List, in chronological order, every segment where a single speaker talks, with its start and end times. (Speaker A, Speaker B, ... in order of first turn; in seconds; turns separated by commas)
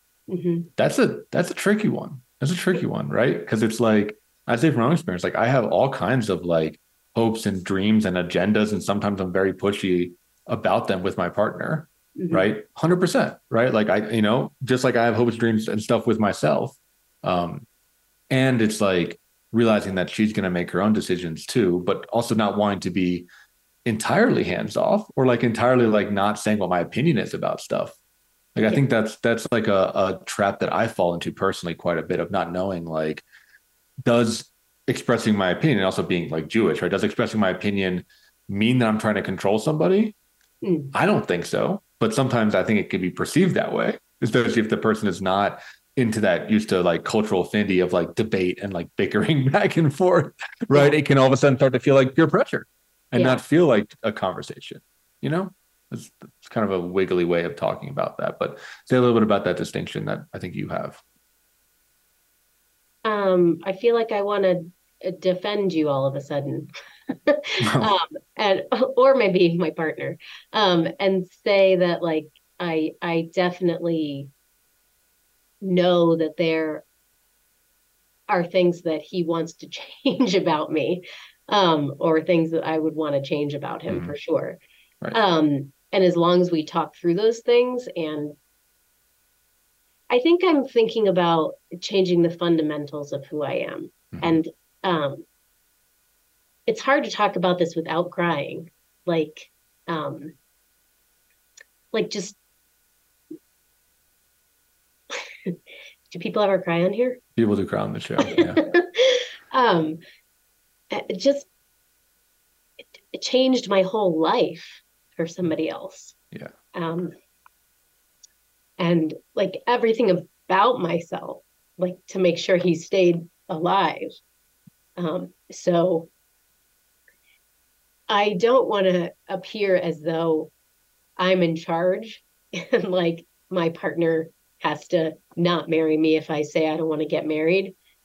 Speaker A: 0.3-0.7, Speaker B: 0.8-17.7, Speaker A: 12.2-12.5, Speaker B: 18.3-23.3, Speaker B: 23.9-28.0, Speaker B: 28.6-33.2, Speaker B: 34.0-40.1, Speaker A: 40.6-40.9, Speaker B: 40.9-61.0, Speaker A: 53.1-53.4, Speaker A: 63.0-74.3, Speaker B: 67.6-67.9, Speaker A: 75.6-76.8, Speaker A: 78.3-84.6, Speaker B: 83.9-84.2, Speaker A: 85.1-88.3, Speaker A: 90.1-95.3, Speaker B: 94.1-94.4, Speaker A: 96.7-100.3, Speaker A: 101.9-102.4, Speaker A: 106.1-107.2, Speaker B: 107.4-108.6, Speaker A: 108.2-110.0, Speaker A: 110.9-111.5, Speaker A: 113.1-116.2, Speaker A: 116.7-117.2, Speaker A: 118.8-124.1, Speaker A: 125.0-126.1, Speaker A: 128.1-130.5, Speaker A: 131.2-137.8